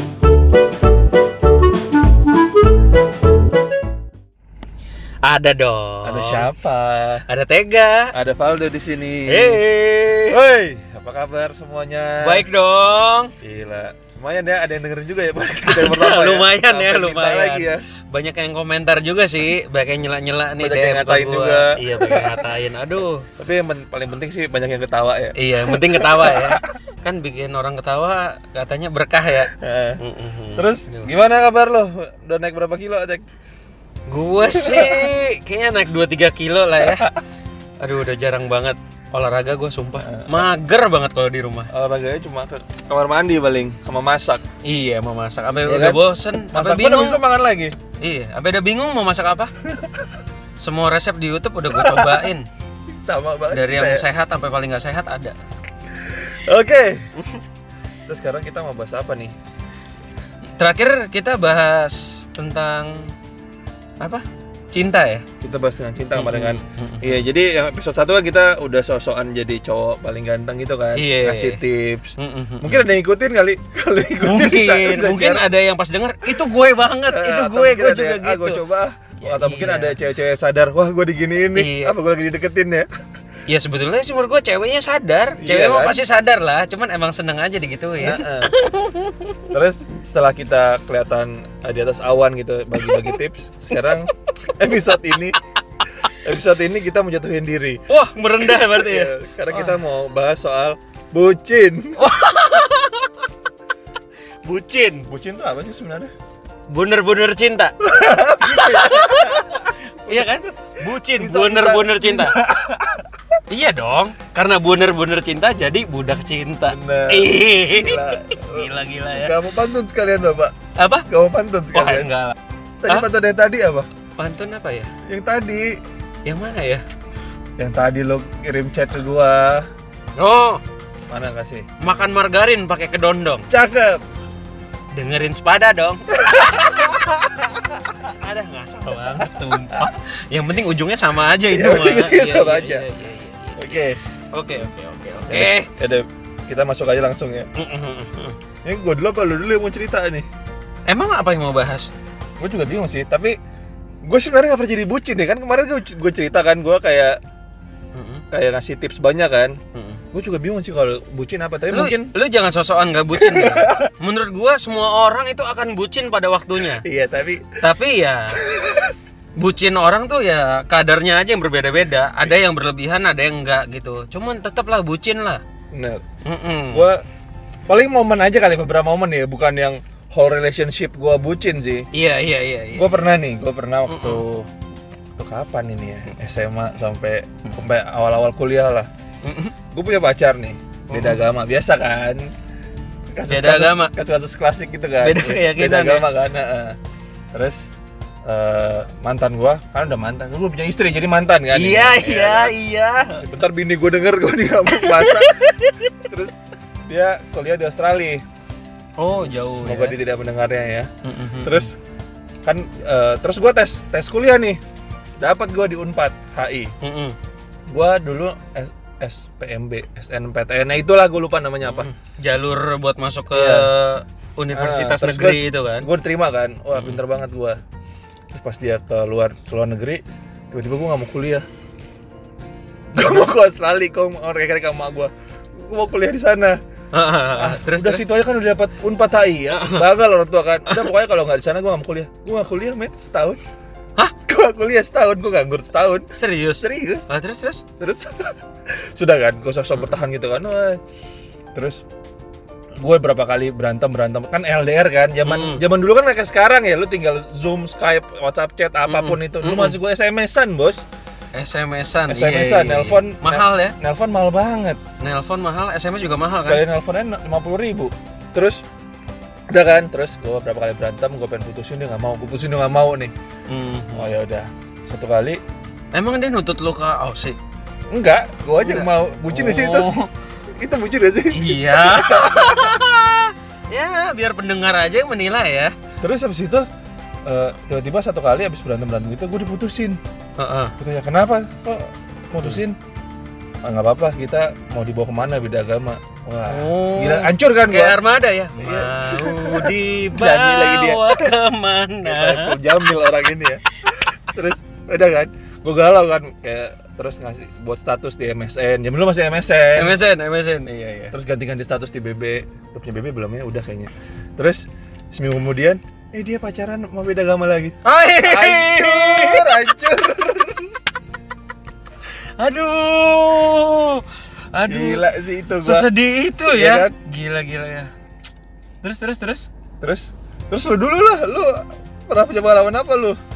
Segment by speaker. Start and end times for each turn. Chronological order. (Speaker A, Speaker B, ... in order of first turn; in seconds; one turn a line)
Speaker A: 5.2-6.5
Speaker B: 6.0-7.2
Speaker A: 7.3-8.1
Speaker B: 8.1-9.6
Speaker A: 9.3-10.4
Speaker B: 10.3-12.4
Speaker A: 12.2-13.3
Speaker B: 13.4-17.9
Speaker A: 15.7-23.3
Speaker B: 20.6-22.5
Speaker B: 23.4-26.7
Speaker A: 25.4-31.1
Speaker B: 29.5-30.0
Speaker B: 30.5-33.2
Speaker A: 34.1-37.1
Speaker B: 34.5-35.1
Speaker B: 36.8-37.2
Speaker A: 37.8-41.7
Speaker B: 40.0-40.5
Speaker B: 41.7-44.4
Speaker A: 44.6-47.2
Speaker B: 45.6-47.7
Speaker A: 48.0-49.5
Speaker B: 49.6-50.0
Speaker A: 50.6-52.5
Speaker B: 51.7-52.3
Speaker B: 52.9-54.0
Speaker A: 53.5-55.4
Speaker B: 55.9-57.0
Speaker B: 58.1-59.3
Speaker A: 60.6-63.1
Speaker A: 64.0-65.2
Speaker B: 65.4-75.4
Speaker A: 66.1-67.2
Speaker A: 71.0-71.6
Speaker A: 72.2-72.9
Speaker A: 74.2-78.6
Speaker B: 77.1-82.9
Speaker A: 79.2-80.0
Speaker A: 81.5-82.0
Speaker A: 83.5-89.4
Speaker B: 85.4-86.0
Speaker B: 88.0-88.5
Speaker B: 89.5-95.4
Speaker B: 96.0-97.8
Speaker A: 97.9-99.8
Speaker B: 98.4-102.0
Speaker A: 102.0-103.3
Speaker A: 104.4-105.0
Speaker B: 105.1-106.1
Speaker A: 106.7-107.8
Speaker B: 107.8-110.4
Speaker A: 108.4-112.4
Speaker B: 111.0-113.1
Speaker A: 113.5-119.4
Speaker B: 116.7-120.5
Speaker A: 120.8-121.1
Speaker B: 121.1-122.1
Speaker A: 121.7-122.3
Speaker B: 122.8-123.9
Speaker A: 124.2-124.9
Speaker B: 125.1-125.7
Speaker A: 126.2-126.8
Speaker B: 127.6-129.7
Speaker A: 130.2-130.6
Speaker B: 131.1-131.7
Speaker A: 131.8-133.5
Speaker B: 133.5-134.0
Speaker A: 134.9-136.9
Speaker B: 136.1-138.0
Speaker A: 138.1-145.7
Speaker B: 141.5-142.8
Speaker B: 143.6-144.0
Speaker B: 145.2-147.5
Speaker A: 147.6-148.4
Speaker B: 148.6-150.3
Speaker A: 150.9-151.9
Speaker B: 152.4-153.3
Speaker B: 154.0-157.2
Speaker A: 157.9-158.2
Speaker B: 158.3-159.6
Speaker A: 159.7-160.0
Speaker B: 160.1-162.1
Speaker A: 161.7-166.8
Speaker B: 163.1-163.9
Speaker B: 166.6-167.5
Speaker A: 167.6-168.4
Speaker B: 168.3-168.9
Speaker A: 169.4-175.4
Speaker B: 175.7-176.0
Speaker A: 176.2-176.8
Speaker B: 176.7-177.0
Speaker B: 177.7-181.8
Speaker A: 181.9-183.0
Speaker B: 182.8-184.5
Speaker A: 183.9-184.2
Speaker B: 185.2-188.9
Speaker A: 189.2-189.5
Speaker B: 189.7-192.3
Speaker A: 190.9-191.2
Speaker B: 193.2-196.8
Speaker A: 193.3-193.9
Speaker A: 195.0-196.1
Speaker B: 197.3-197.7
Speaker B: 198.2-202.5
Speaker A: 201.5-203.2
Speaker B: 203.2-205.5
Speaker A: 204.8-205.9
Speaker B: 206.1-208.2
Speaker A: 209.0-210.0
Speaker B: 209.2-210.9
Speaker A: 211.0-211.7
Speaker B: 211.4-211.7
Speaker B: 212.4-214.6
Speaker B: 215.2-216.7
Speaker A: 216.8-217.2
Speaker B: 217.7-221.9
Speaker A: 221.6-225.9
Speaker B: 223.3-223.7
Speaker B: 224.5-227.6
Speaker A: 226.7-227.0
Speaker B: 228.3-231.5
Speaker B: 232.9-236.6
Speaker A: 236.9-238.0
Speaker B: 237.3-243.4
Speaker A: 239.5-239.8
Speaker B: 244.3-246.1
Speaker A: 246.2-247.6
Speaker B: 246.6-247.1
Speaker B: 247.8-250.8
Speaker B: 251.5-251.8
Speaker B: 252.8-260.8
Speaker A: 255.2-255.6
Speaker A: 258.9-259.8
Speaker A: 261.3-263.8
Speaker B: 262.1-264.8
Speaker A: 265.0-266.6
Speaker B: 266.3-268.6
Speaker B: 269.5-273.1
Speaker A: 273.5-274.1
Speaker B: 273.9-275.4
Speaker A: 275.9-277.4
Speaker B: 277.9-279.9
Speaker A: 278.6-280.1
Speaker B: 280.6-282.8
Speaker A: 281.3-285.7
Speaker B: 286.0-286.7
Speaker B: 287.3-290.0
Speaker A: 290.4-290.7
Speaker B: 290.8-292.8
Speaker B: 293.6-298.0
Speaker A: 296.5-302.6
Speaker B: 298.6-301.3
Speaker B: 302.0-310.0
Speaker A: 309.8-311.1
Speaker B: 311.1-320.7
Speaker A: 317.9-319.8
Speaker A: 322.4-325.0
Speaker B: 324.7-325.9
Speaker A: 325.6-327.9
Speaker B: 326.4-326.9
Speaker A: 328.8-329.5
Speaker B: 329.8-333.2